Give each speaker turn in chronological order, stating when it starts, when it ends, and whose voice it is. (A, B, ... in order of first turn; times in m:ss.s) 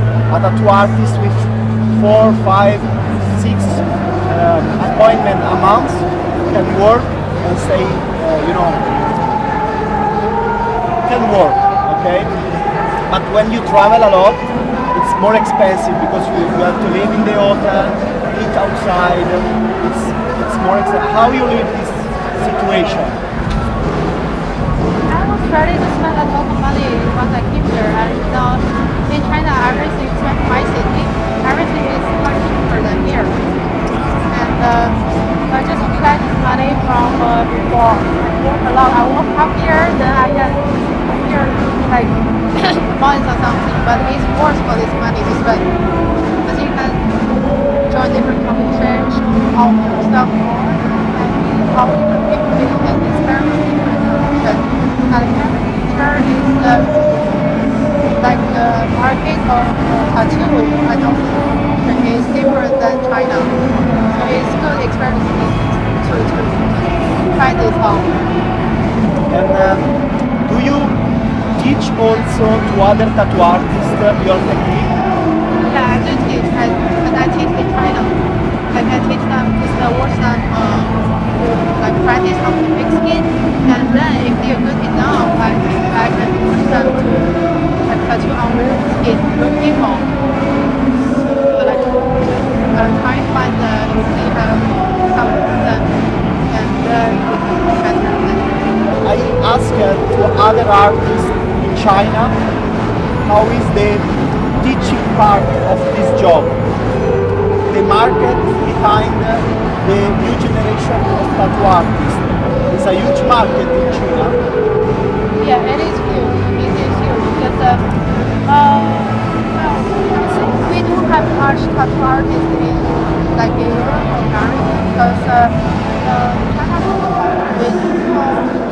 0:00.3-0:09.1 A
0:11.1-0:12.3 A
0:13.1-0:23.2 A
0:25.1-0:33.4 B
0:34.3-0:35.0 B
0:35.5-0:45.7 B
0:46.4-0:47.0 B
0:47.9-0:56.9 B
0:58.2-1:03.5 B
1:04.1-1:08.1 B
1:09.3-1:09.9 A
1:10.4-1:11.0 A
1:11.5-1:14.9 A
1:15.6-1:18.2 B
1:18.7-1:30.1 B
1:31.4-1:32.1 B
1:32.7-1:36.0 B
1:36.5-1:38.6 B
1:39.0-1:42.4 A
1:43.2-1:44.0 A
1:44.6-1:46.6 A
1:47.7-1:54.4 A
1:55.4-1:57.9 B
1:58.4-2:08.5 B